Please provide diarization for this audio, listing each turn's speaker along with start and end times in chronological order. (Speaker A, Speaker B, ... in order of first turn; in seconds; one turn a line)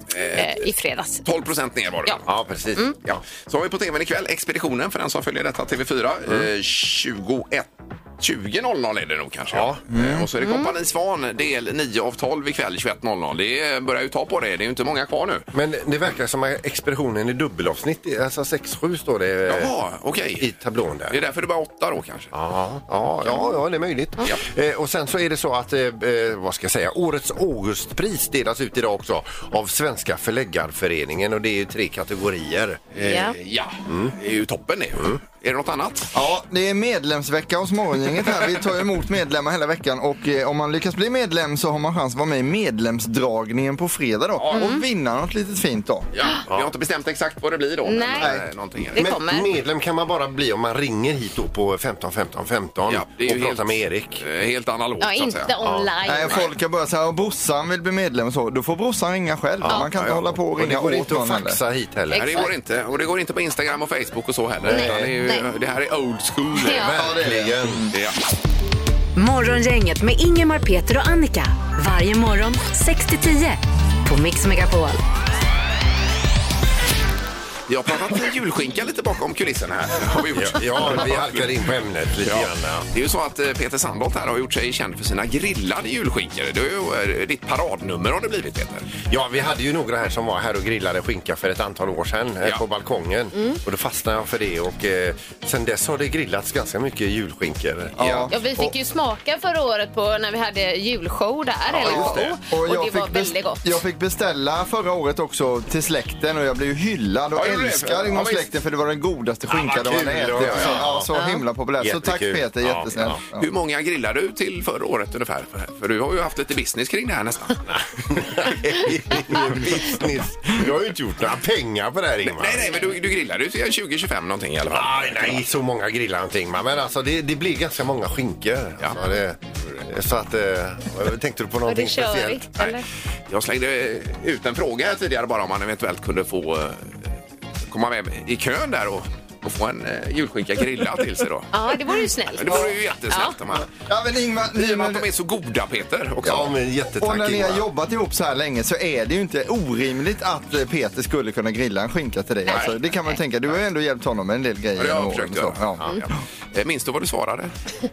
Speaker A: 0.1-0.6
Speaker B: 0.3-1.2
Speaker A: 1.2-2.2
Speaker C: 2.2-3.0
Speaker A: 3.0-15.5
Speaker C: 9.5-9.8
Speaker D: 9.9-10.3
Speaker B: 10.4-10.7
Speaker C: 15.5-19.7
Speaker A: 19.5-20.5
Speaker C: 20.4-21.2
Speaker A: 21.1-22.3
Speaker C: 22.3-32.8
Speaker A: 33.0-36.1
Speaker B: 33.0-33.4
Speaker C: 33.9-34.1
Speaker D: 36.1-46.1
Speaker A: 44.4-44.7
Speaker B: 44.5-44.8
Speaker A: 46.1-49.0
Speaker B: 47.9-48.3
Speaker D: 48.2-48.5
Speaker B: 48.9-49.5
Speaker C: 49.0-54.2
Speaker A: 52.9-55.6
Speaker B: 55.0-56.4
Speaker D: 56.1-61.6
Speaker C: 59.6-59.9
Speaker A: 60.0-60.2
Speaker C: 60.5-62.5
Speaker B: 62.1-62.5
Speaker A: 62.1-66.9
Speaker C: 64.6-65.2
Speaker B: 64.7-65.5
Speaker B: 66.6-66.9
Speaker C: 66.7-67.9
Speaker D: 66.9-67.9
Speaker E: 69.2-75.0
Speaker A: 77.7-81.6
Speaker C: 80.2-82.9
Speaker A: 82.2-89.0
Speaker C: 89.1-98.2
Speaker D: 98.0-98.7
Speaker A: 98.0-98.3
Speaker B: 98.3-103.8
Speaker C: 101.7-102.4
Speaker D: 101.8-113.5
Speaker A: 107.3-108.5
Speaker C: 109.5-111.1
Speaker A: 110.3-110.9
Speaker B: 111.2-111.4
Speaker C: 111.8-113.2
Speaker A: 113.4-117.7
Speaker C: 117.7-122.8
Speaker A: 122.2-125.4
Speaker C: 124.7-132.6
Speaker B: 131.7-132.8
Speaker A: 133.3-137.1
Speaker A: 137.7-141.5
Speaker B: 141.5-143.3
Speaker A: 142.4-143.7
Speaker D: 143.9-145.1
Speaker A: 144.5-146.6
Speaker C: 146.2-147.7
Speaker D: 147.0-156.0
Speaker A: 152.5-152.8
Speaker A: 154.8-157.5